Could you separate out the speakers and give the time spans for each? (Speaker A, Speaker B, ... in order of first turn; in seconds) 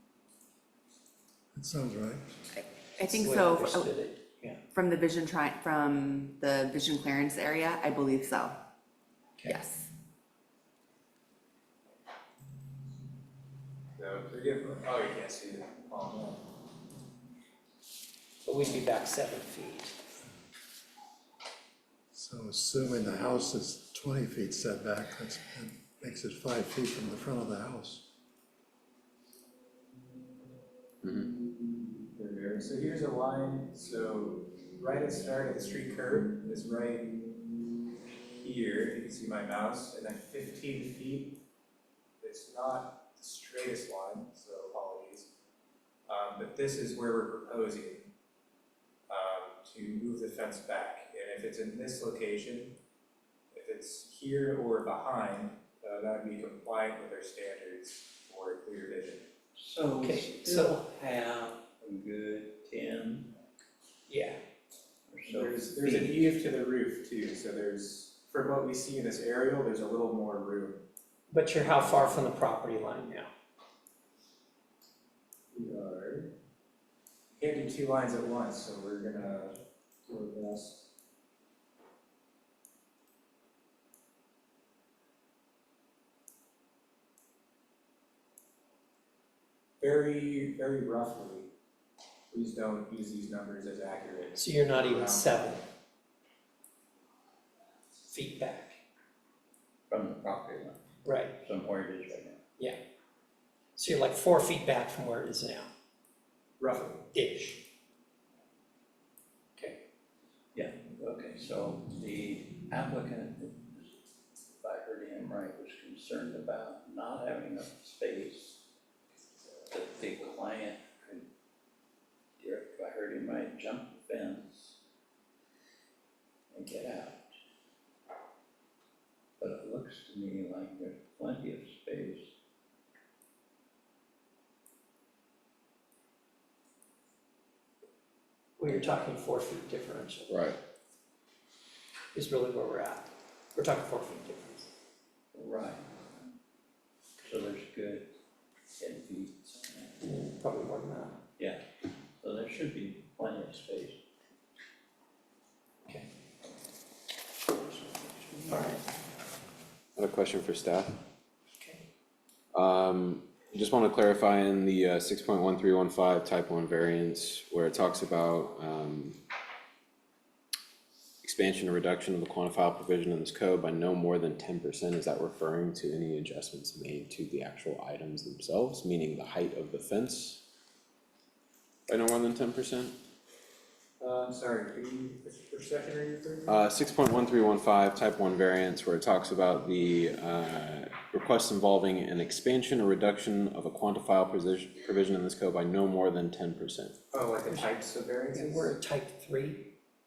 Speaker A: 1.5-2.4, 22.1-28.1
Speaker B: 2.5-3.9, 4.7-8.5, 9.4-9.9
Speaker C: 3.0-4.6, 18.4-19.9, 60.0-60.8, 64.1-64.4, 71.3-73.3, 94.4-95.6, 98.0-98.8, 101.0-101.4, 103.8-105.7, 107.1-107.6, 138.6-140.4, 142.1-144.7, 150.0-151.2, 158.4-158.8, 161.6-161.8, 198.3-199.7
Speaker D: 14.0-16.4, 32.1-37.2, 38.4-41.4, 42.2-45.3, 46.1-48.1, 49.1-52.8, 53.5-59.3, 65.3-70.8, 75.5-76.3, 77.3-80.9, 89.8-91.5, 92.3-95.6, 106.6-107.0, 184.0-186.6, 197.1-198.7
Speaker E: 31.0-31.3, 140.3-140.6, 159.9-160.9, 162.5-169.2, 171.2-180.4, 181.9-182.9, 186.5-196.9
Speaker F: 59.5-63.3, 65.1-66.3, 99.9-100.8, 101.4-102.4, 110.5-114.0, 114.6-118.6, 119.7-121.2, 122.4-124.8, 126.5-127.3, 129.4-132.3, 145.3-146.3, 147.2-148.1, 148.8-150.0, 151.4-151.6, 152.2-154.0, 157.5-158.7